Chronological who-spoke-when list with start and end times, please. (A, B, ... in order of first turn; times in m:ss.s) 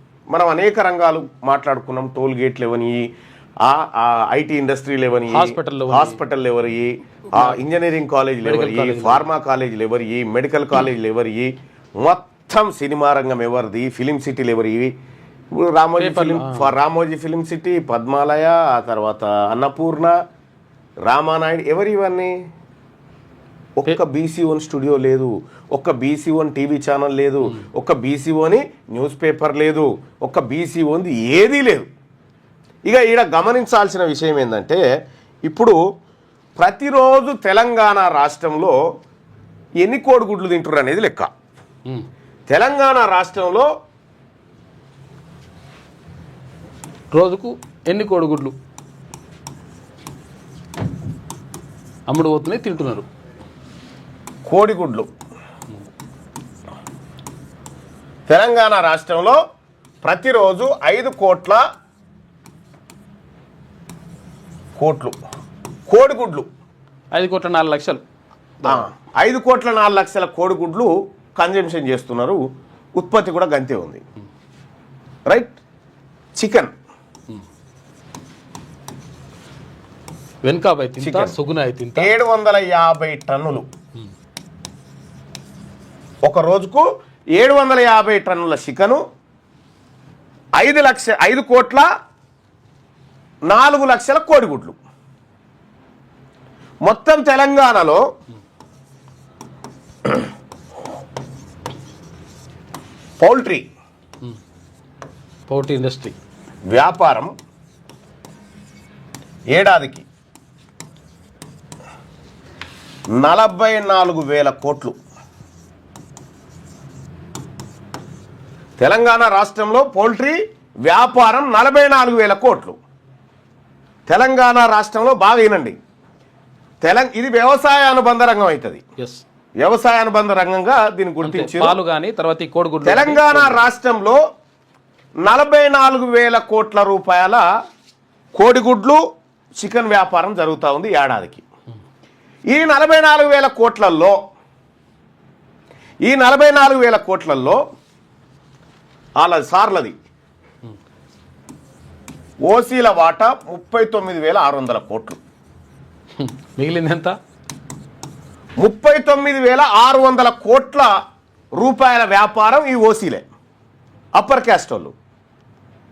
0:00.3-0:03.1 A
0:03.6-0:14.9 A
0:05.3-0:06.2 B
0:08.4-0:09.3 B
0:15.5-0:20.2 A
0:16.0-0:16.8 B
0:21.0-0:22.3 A
0:23.8-0:31.9 A
0:32.9-0:34.8 A
0:35.4-0:35.8 A
0:36.6-0:38.8 A
0:39.8-0:41.3 A
0:42.5-0:43.7 A
0:47.1-0:48.6 B
0:52.1-0:53.1 B
0:54.5-0:55.1 A
0:58.3-0:59.4 A
1:00.0-1:01.6 A
1:04.8-1:05.2 A
1:05.9-1:06.5 A
1:07.1-1:08.0 B
1:08.6-1:08.9 B
1:08.6-1:12.4 A
1:13.0-1:14.0 A
1:15.3-1:15.6 A
1:16.4-1:16.7 A
1:20.4-1:22.1 B
1:21.0-1:21.4 A
1:22.0-1:23.7 A
1:26.2-1:29.0 A
1:30.6-1:31.9 A
1:33.5-1:34.8 A
1:36.8-1:38.0 A
1:43.2-1:43.6 A
1:45.5-1:46.2 B
1:46.7-1:47.3 A
1:49.5-1:50.1 A
1:53.2-1:55.0 A
1:58.8-2:02.8 A
2:04.1-2:05.8 A
2:06.8-2:08.8 A
2:09.0-2:09.2 B
2:09.6-2:11.8 A
2:11.2-2:13.7 B
2:12.8-2:14.2 A
2:15.2-2:17.5 A
2:18.3-2:19.0 A
2:19.6-2:21.4 A
2:22.5-2:24.2 A
2:26.0-2:27.6 A
2:29.2-2:30.0 A
2:32.5-2:35.2 A
2:36.2-2:37.2 B
2:38.6-2:41.0 A
2:41.6-2:43.2 A
2:44.2-2:44.9 A